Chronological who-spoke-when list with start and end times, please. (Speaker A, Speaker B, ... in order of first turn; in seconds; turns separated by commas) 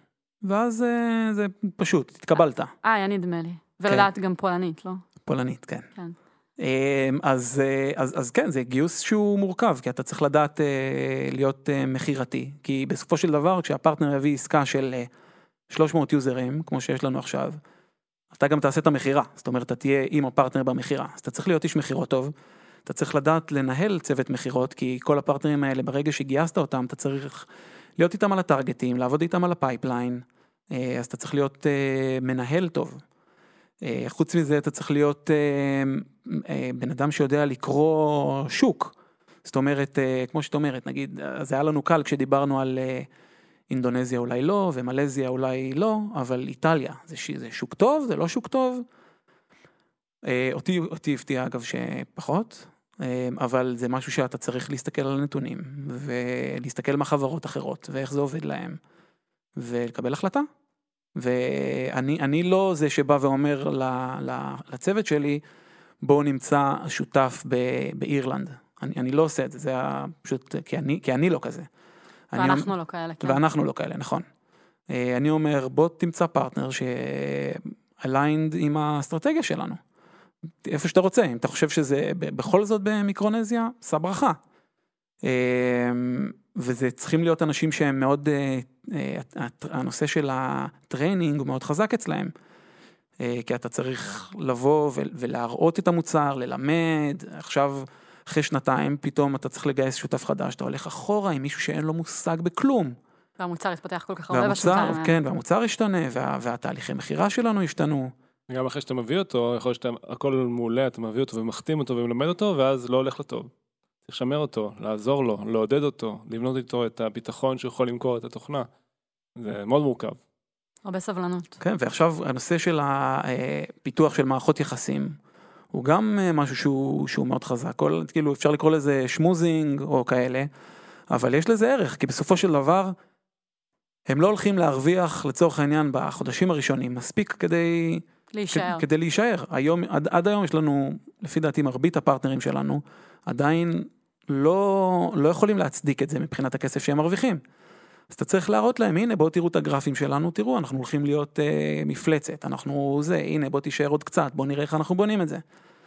Speaker A: 0.4-2.7, Speaker B: 2.8-5.0, Speaker A: 5.2-5.9, Speaker A: 6.6-15.1, Speaker A: 15.7-17.6, Speaker A: 18.3-22.3, Speaker A: 22.9-33.0, Speaker A: 33.8-38.9, Speaker A: 39.4-43.1, Speaker A: 43.7-48.9, Speaker A: 50.2-58.8, Speaker A: 59.5-60.5, Speaker A: 61.1-65.4, Speaker A: 66.0-71.7, Speaker A: 72.3-72.7, Speaker B: 72.3-73.4, Speaker A: 73.2-74.2, Speaker A: 74.9-79.8, Speaker A: 80.6-84.4, Speaker A: 85.2-92.3, Speaker A: 93.2-103.0, Speaker B: 103.4-105.2, Speaker A: 104.3-108.1, Speaker C: 108.5-113.5, Speaker C: 114.0-118.7, Speaker C: 119.4-120.2, Speaker B: 120.8-121.6, Speaker A: 121.6-125.2, Speaker A: 125.7-130.5, Speaker A: 131.1-132.9, Speaker A: 134.1-147.4, Speaker B: 138.3-138.8, Speaker A: 148.1-155.4